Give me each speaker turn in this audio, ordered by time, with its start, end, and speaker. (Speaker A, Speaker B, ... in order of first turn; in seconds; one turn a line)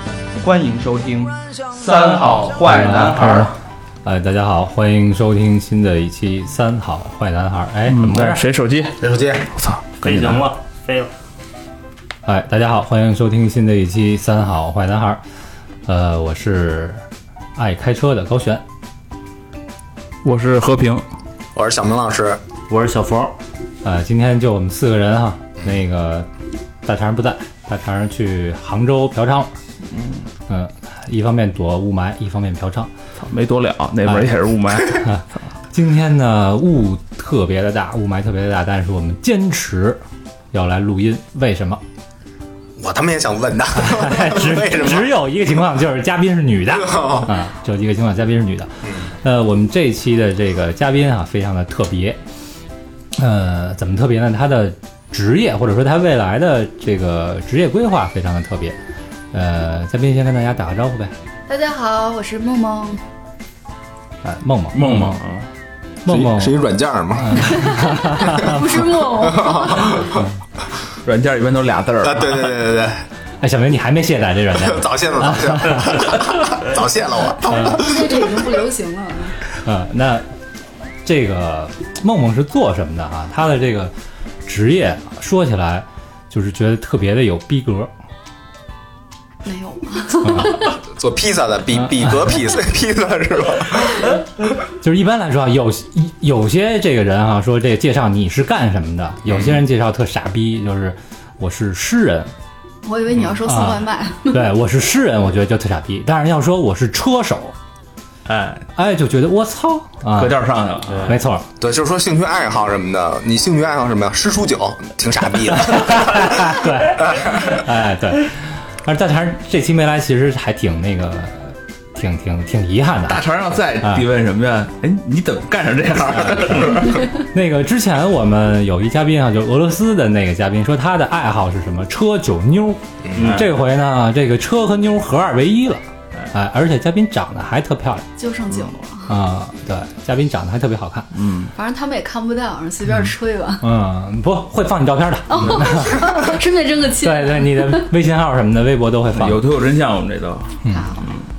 Speaker A: 0.4-3.5
Speaker B: 1.8-3.5
Speaker C: 2.7-8.5
Speaker B: 7.9-10.4
Speaker D: 9.0-9.5
Speaker E: 10.0-11.1
Speaker C: 12.2-15.2
Speaker C: 15.9-17.0
Speaker C: 17.6-18.6
Speaker B: 20.2-21.0
Speaker D: 21.6-22.4
Speaker E: 22.7-23.4
Speaker C: 23.8-26.3
Speaker C: 26.8-29.5
Speaker B: 29.9-30.2
Speaker C: 30.5-32.9
Speaker B: 33.2-35.2
Speaker C: 34.1-34.4
Speaker C: 34.9-40.0
Speaker C: 40.5-41.8
Speaker D: 42.8-45.1
Speaker C: 43.7-52.2
Speaker D: 46.7-47.3
Speaker C: 53.2-58.8
Speaker C: 59.3-61.1
Speaker F: 61.5-63.0
Speaker C: 64.2-65.3
Speaker B: 64.8-65.5
Speaker C: 66.0-66.6
Speaker D: 66.1-68.5
Speaker C: 67.2-68.9
Speaker F: 67.5-70.0
Speaker D: 69.2-70.3
Speaker B: 71.0-72.5
Speaker D: 72.0-73.0
Speaker C: 73.4-76.2
Speaker D: 74.6-78.4
Speaker F: 77.5-79.4
Speaker C: 77.5-77.8
Speaker C: 79.7-80.2
Speaker C: 81.0-83.9
Speaker C: 84.4-87.9
Speaker F: 89.4-90.8
Speaker C: 90.2-90.5
Speaker D: 90.6-94.2
Speaker C: 94.8-102.3
Speaker F: 102.9-104.4
Speaker C: 103.5-107.5
Speaker B: 108.3-108.7
Speaker C: 108.8-110.4
Speaker B: 110.2-111.2
Speaker E: 110.9-111.2
Speaker C: 111.1-111.5
Speaker D: 111.6-117.5
Speaker C: 115.5-123.3
Speaker B: 123.1-127.1
Speaker C: 123.8-124.1
Speaker C: 127.2-138.1
Speaker D: 133.1-133.4
Speaker B: 133.2-133.5
Speaker F: 138.2-139.2
Speaker C: 139.1-141.2
Speaker B: 141.1-141.5
Speaker F: 141.6-143.7
Speaker C: 143.6-146.4
Speaker F: 145.3-147.9
Speaker C: 147.0-149.4
Speaker B: 149.1-151.2
Speaker F: 150.7-151.1